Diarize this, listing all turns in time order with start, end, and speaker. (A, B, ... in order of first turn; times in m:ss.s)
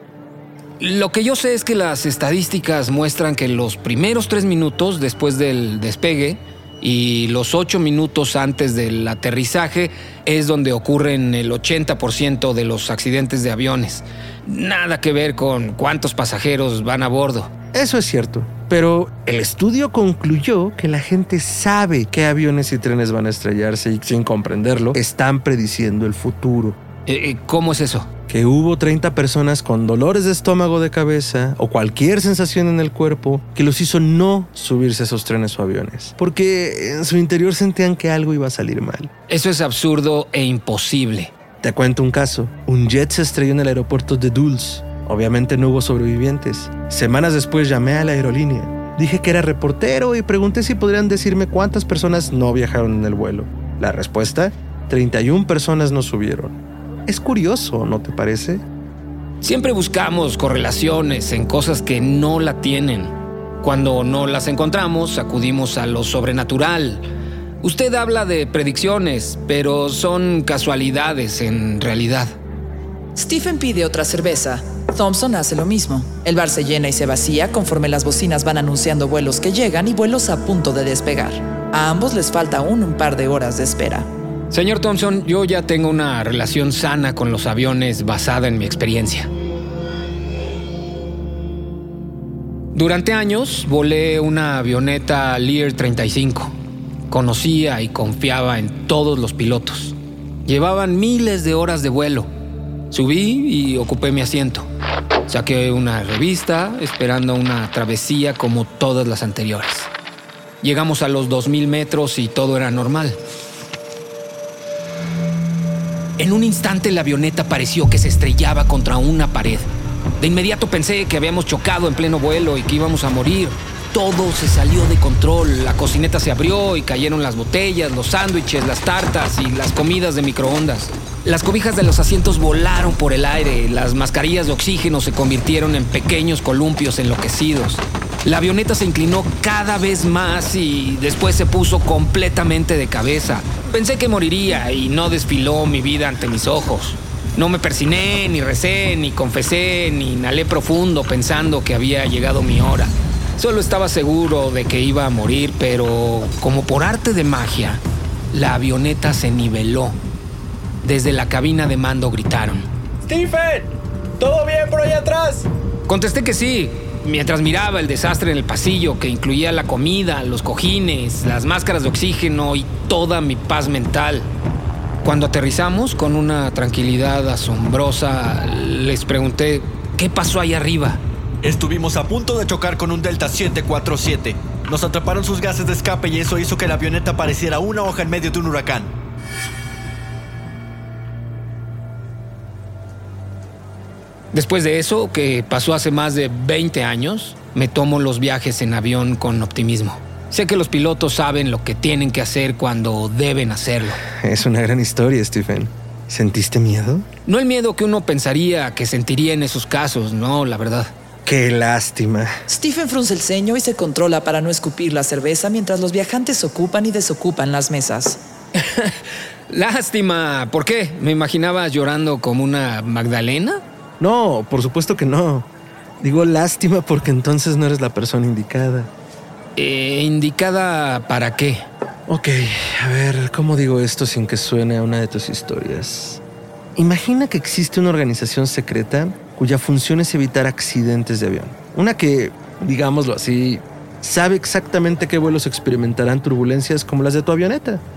0:00.8-0:17.5 A
0:17.7-0:26.8 B
0:27.1-0:28.1 A
0:28.3-0:39.1 B
0:39.3-0:41.3 A
0:41.6-0:58.6 B
0:59.4-1:07.0 A
1:07.6-1:12.3 A
1:13.2-1:24.1 C
1:24.5-1:29.3 A
1:32.7-1:36.5 A
1:37.1-1:39.9 A
1:40.4-1:42.3 A
1:42.9-1:44.7 A
1:45.3-1:49.9 A
1:50.6-1:53.2 A
1:56.2-1:59.7 A
2:00.2-2:40.0 A
2:40.8-2:42.7 A
2:45.9-2:54.3 A
2:55.0-3:01.0 A
3:01.4-3:08.9 D
3:14.3-3:24.0 A
3:24.2-3:27.0 B
3:27.2-3:30.9 A
3:31.2-3:32.3 B
3:32.5-3:38.2 C
3:38.6-3:39.0 A
3:39.5-3:43.6 A
3:44.0-3:45.5 B
3:46.0-3:48.9 B
3:49.6-3:51.6 A
3:52.1-3:56.2 B
3:56.8-4:07.8 B